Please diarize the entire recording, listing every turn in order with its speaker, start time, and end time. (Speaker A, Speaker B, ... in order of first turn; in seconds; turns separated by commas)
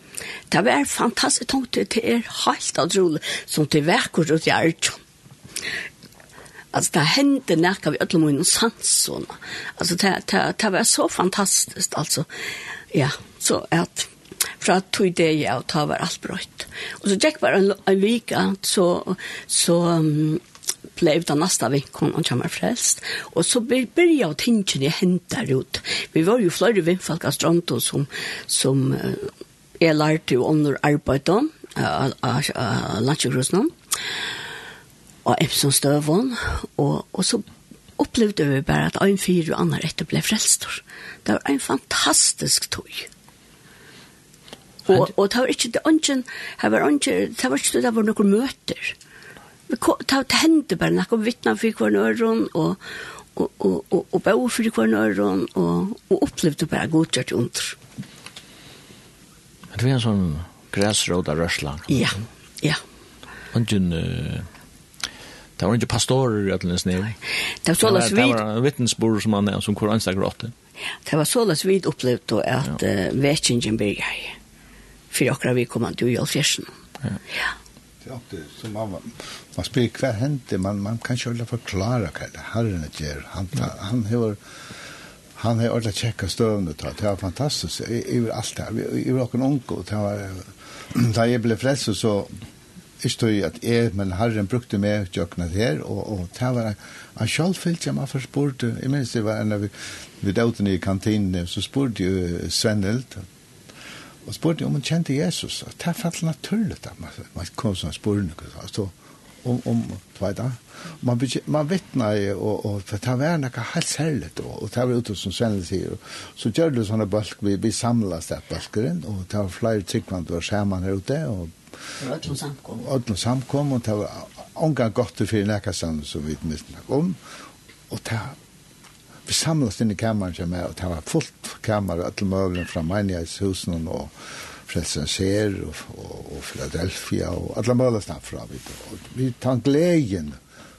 Speaker A: 0.5-5.0, Speaker A: 6.7-12.3, Speaker A: 12.9-20.4, Speaker A: 21.0-33.7, Speaker A: 35.2-37.5, Speaker A: 38.0-43.1, Speaker A: 44.9-49.0, Speaker A: 49.7-52.8, Speaker A: 53.4-57.8, Speaker B: 59.7-62.1, Speaker A: 61.9-62.8, Speaker B: 63.5-64.5, Speaker B: 65.6-67.2, Speaker A: 67.7-68.4, Speaker B: 67.8-70.5, Speaker A: 71.1-74.4, Speaker A: 75.1-76.7, Speaker C: 78.0-84.4, Speaker C: 85.4-92.4, Speaker C: 93.0-103.3, Speaker C: 104.2-121.6, Speaker A: 122.0-122.8, Speaker C: 122.8-127.2, Speaker C: 127.9-128.4, Speaker C: 129.3-134.2, Speaker C: 134.7-140.4